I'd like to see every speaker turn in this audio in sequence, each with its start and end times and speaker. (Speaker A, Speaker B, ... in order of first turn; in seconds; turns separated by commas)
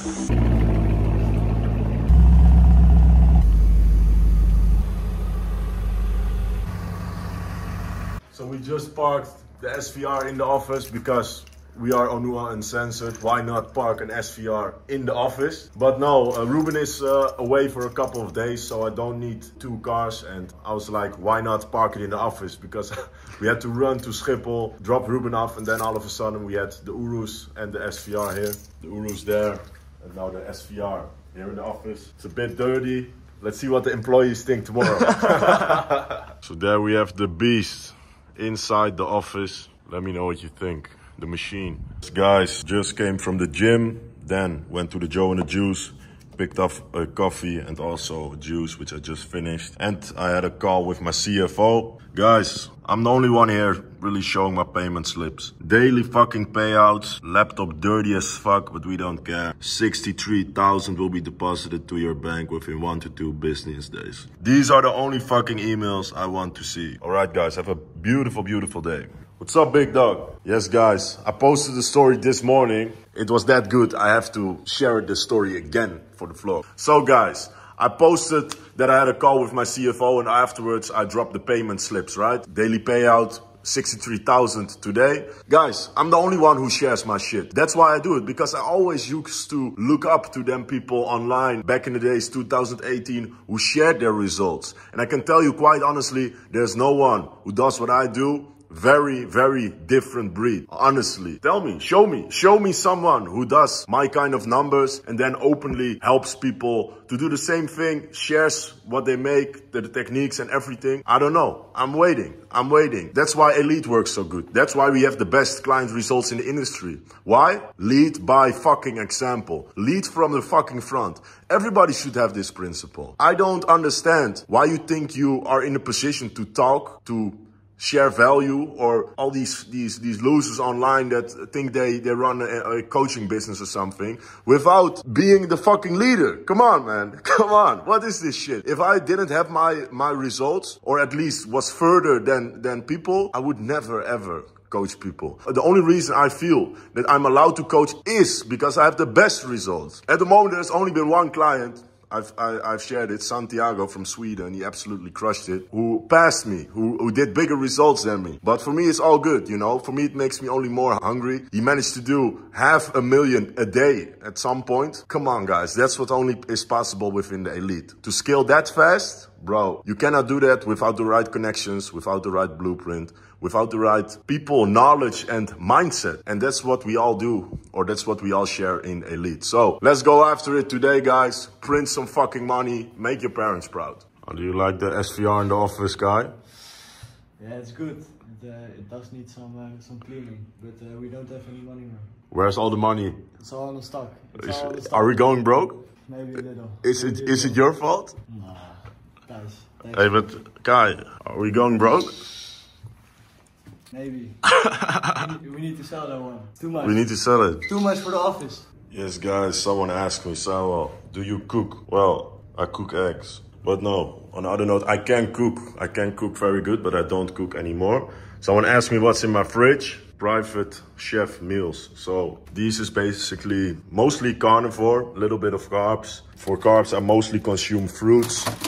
Speaker A: 8.3-186.3, Speaker B: 187.4-192.2, Speaker A: 192.3-193.3, Speaker B: 193.4-197.6, Speaker A: 194.4-195.8, Speaker A: 196.8-198.2, Speaker B: 198.3-200.3, Speaker A: 199.9-202.2, Speaker B: 203.9-204.4, Speaker B: 205.1-208.7, Speaker A: 206.8-207.7, Speaker A: 208.9-228.5